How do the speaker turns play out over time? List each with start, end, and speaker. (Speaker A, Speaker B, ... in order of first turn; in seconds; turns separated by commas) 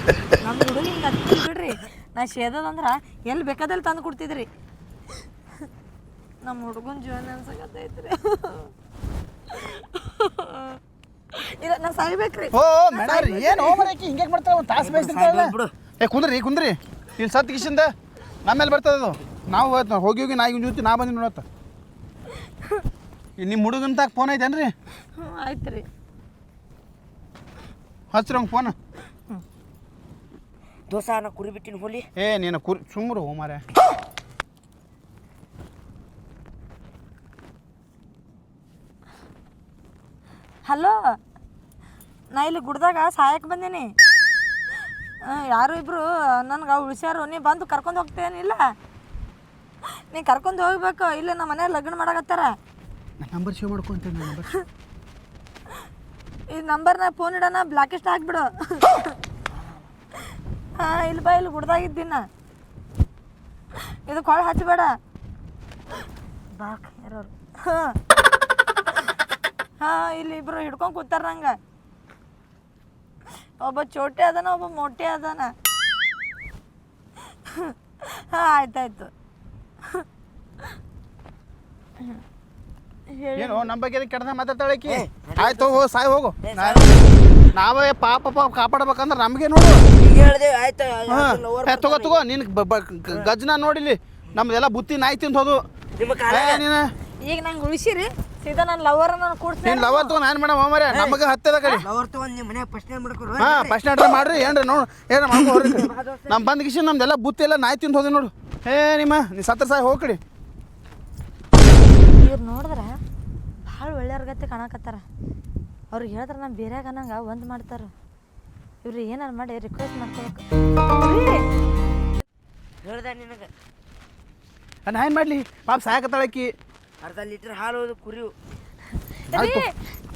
Speaker A: 0.4-4.5, Speaker A: 6.5-8.7, Speaker A: 9.5-10.7, Speaker A: 11.3-13.9, Speaker B: 12.5-17.9, Speaker C: 14.8-15.7, Speaker B: 18.4-21.4, Speaker B: 23.4-24.7, Speaker A: 25.2-25.9, Speaker B: 28.1-28.8, Speaker C: 30.9-32.1, Speaker B: 32.2-33.6, Speaker A: 40.6-41.2, Speaker A: 42.3-43.9, Speaker A: 45.2-48.7, Speaker A: 50.0-52.6, Speaker B: 53.2-54.5, Speaker A: 56.5-59.1, Speaker A: 60.8-62.3, Speaker A: 63.9-65.0, Speaker A: 66.6-68.0, Speaker A: 69.8-71.6, Speaker A: 73.6-75.5, Speaker A: 77.5-79.1, Speaker A: 83.1-83.7, Speaker B: 83.4-86.9, Speaker C: 84.9-85.8, Speaker C: 86.4-87.1, Speaker B: 87.5-89.8, Speaker C: 90.0-92.2, Speaker B: 91.1-95.6, Speaker C: 96.0-96.6, Speaker B: 96.3-96.9, Speaker A: 97.2-100.2, Speaker B: 99.7-101.9, Speaker C: 100.9-103.8, Speaker B: 103.4-110.2, Speaker C: 105.4-106.4, Speaker A: 112.2-113.0, Speaker A: 113.7-115.0, Speaker A: 115.9-117.9, Speaker A: 118.8-121.5, Speaker C: 122.8-123.5, Speaker B: 124.9-126.5, Speaker C: 127.0-128.3, Speaker A: 129.3-129.7, Speaker B: 129.3-129.7